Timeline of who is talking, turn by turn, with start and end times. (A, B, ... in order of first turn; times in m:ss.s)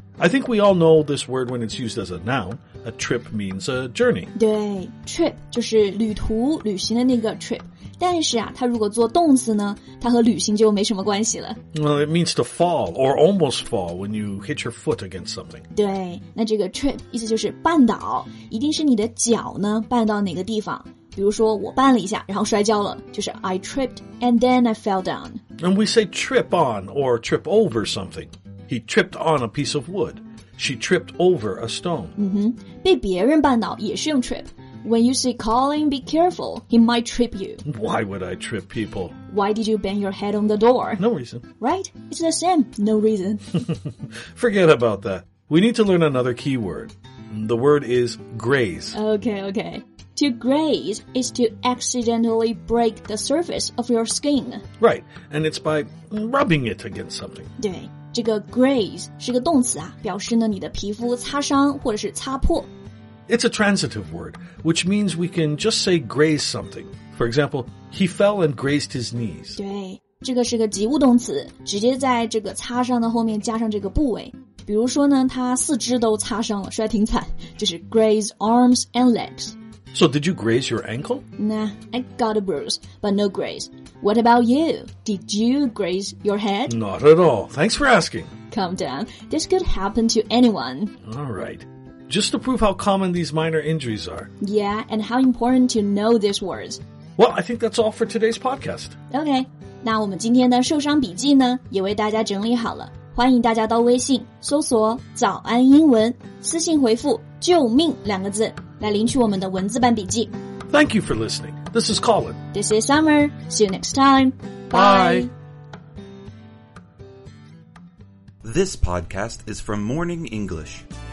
0:00.2-0:04.3 A
0:04.4-0:11.6 B
0:11.7-0:15.7 A
0:15.7-0:25.4 B
0:25.6-0:32.2 A
0:32.2-0:37.6 B
0:37.6-0:39.1 A
0:39.3-0:41.0 B
0:41.0-0:41.4 A
0:41.6-0:43.6 B
0:43.5-0:49.0 A
0:48.9-0:54.6 B
0:54.8-0:57.5 A
0:57.6-1:02.7 B
1:03.3-1:09.6 A
1:09.6-1:19.6 B
1:19.9-1:21.2 A
1:21.4-1:26.8 B
1:26.7-1:28.3 A
1:28.5-1:30.9 B
1:31.0-1:34.3 A
1:34.4-1:36.8 B
1:37.2-1:39.0 A
1:39.1-1:50.3 B
1:50.7-1:52.4 A
1:52.5-1:55.3 B
1:58.4-2:00.8 C